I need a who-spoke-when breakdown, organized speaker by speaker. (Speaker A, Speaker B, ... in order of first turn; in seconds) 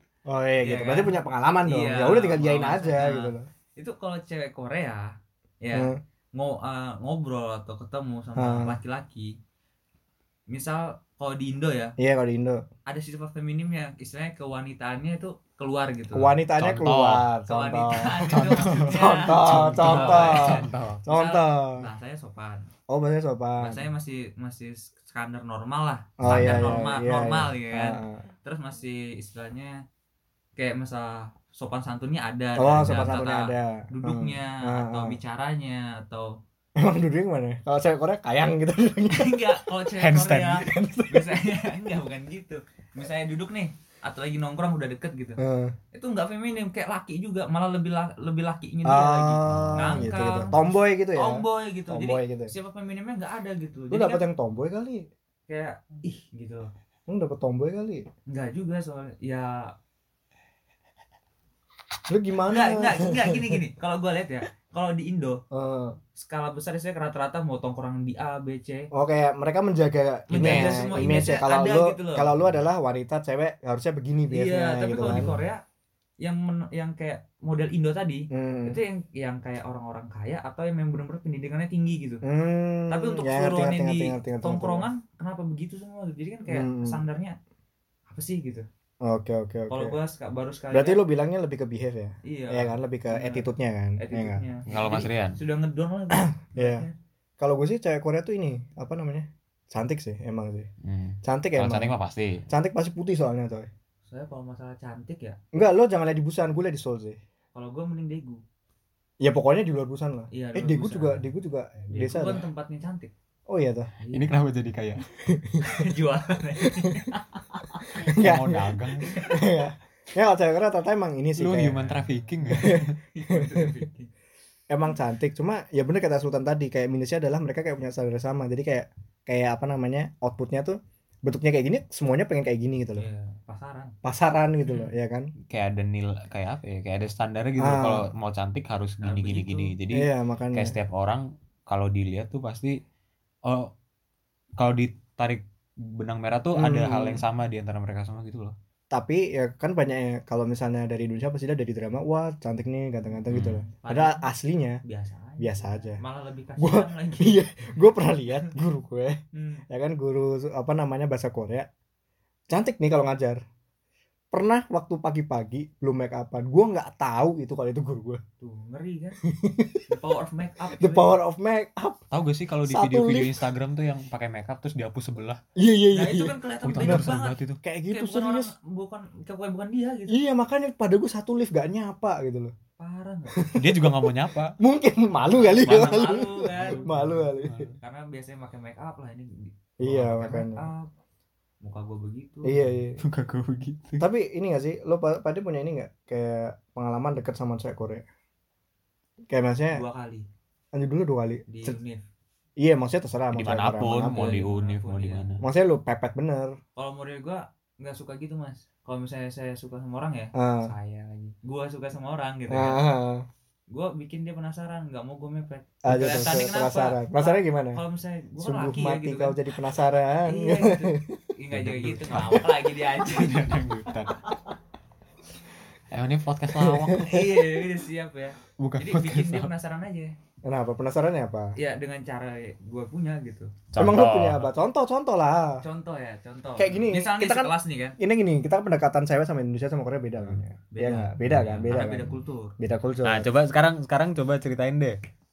Speaker A: 0.3-3.5, 5.7-6.0, 8.4-8.8, 12.0-12.6, 16.1-21.9, 22.9-23.8, 26.2-28.3, 32.6-35.2, 36.8-39.6, 40.6-41.4, 45.4-45.8, 48.9-52.5, 53.9-55.1, 57.1-58.1, 62.1-63.6, 65.5-66.0, 68.9-75.4, 78.3-78.8, 82.2-84.9, 86.5-87.0, 89.0-90.0, 90.7-94.4, 96.1-96.9, 97.4-100.7, 101.2-101.9, 102.5-103.7, 105.5-107.2, 109.2-112.5, 113.5-113.9, 115.2-115.8, 116.6-117.0, 117.9-123.8, 124.7-133.1, 134.0-135.3, 137.6-138.1, 139.9-140.8, 146.6-147.2, 148.9-154.8, 155.4-156.0, 156.6-161.7, 162.5-163.4, 164.3-168.2, 169.2-169.8, 170.7-172.0, 172.7-173.4, 175.6-177.1, 177.6-178.5, 180.1-182.5, 183.3-187.7, 189.8-190.7, 192.4-193.0, 194.0-198.1, 199.3-199.8, 200.7-201.8, 202.6-204.4, 205.4-206.6, 210.3-210.7, 212.5-213.3, 215.8-217.8, 218.4-221.2, 226.6-227.4, 230.4-231.6, 233.8-235.6, 236.6-243.3
Speaker B: 0.6-9.3, 10.5-11.9, 12.9-16.4, 17.5-22.7, 23.6-29.8, 30.6-36.4, 39.1-45.4, 45.9-54.2, 55.5-56.7, 58.3-59.7, 62.5-65.4, 66.2-68.9, 70.3-72.4, 74.3-75.6, 76.2-82.2, 82.9-87.4, 88.1-88.7, 89.7-91.0, 92.2-96.9, 104.1-105.4, 107.5-108.4, 110.3-111.2, 111.9-113.1, 114.0-114.3, 115.6-118.1, 122.6-124.1, 133.0-133.9, 134.7-134.9, 139.0-139.7, 153.4-154.3, 154.8-157.8, 159.3-159.6, 168.4-169.2, 169.9-171.2, 175.9-180.2, 182.8-183.5, 185.3-186.9, 187.8-190.9, 191.6-192.8, 199.7-200.3, 201.5-202.0, 204.1-205.3, 206.8-212.8, 213.7-219.4, 220.3-223.4, 227.1-230.2, 231.6-233.6, 235.6-238.0, 240.7-242.5
Speaker C: 16.6-17.3, 18.3-21.0, 26.2-26.8, 40.0-40.6, 49.5-49.8, 70.4-70.6, 94.7-95.4, 100.8-102.5, 114.1-115.0, 118.0-119.2, 121.4-123.0, 135.5-142.8, 143.4-143.7, 144.6-148.5, 153.3-153.6, 172.1-175.4, 176.6-177.6, 183.6-184.6, 186.6-187.8, 193.0-194.1, 203.3-205.4, 221.5-224.2, 225.9-227.2, 228.6-229.5, 233.7-234.5, 241.2-241.8, 243.0-245.0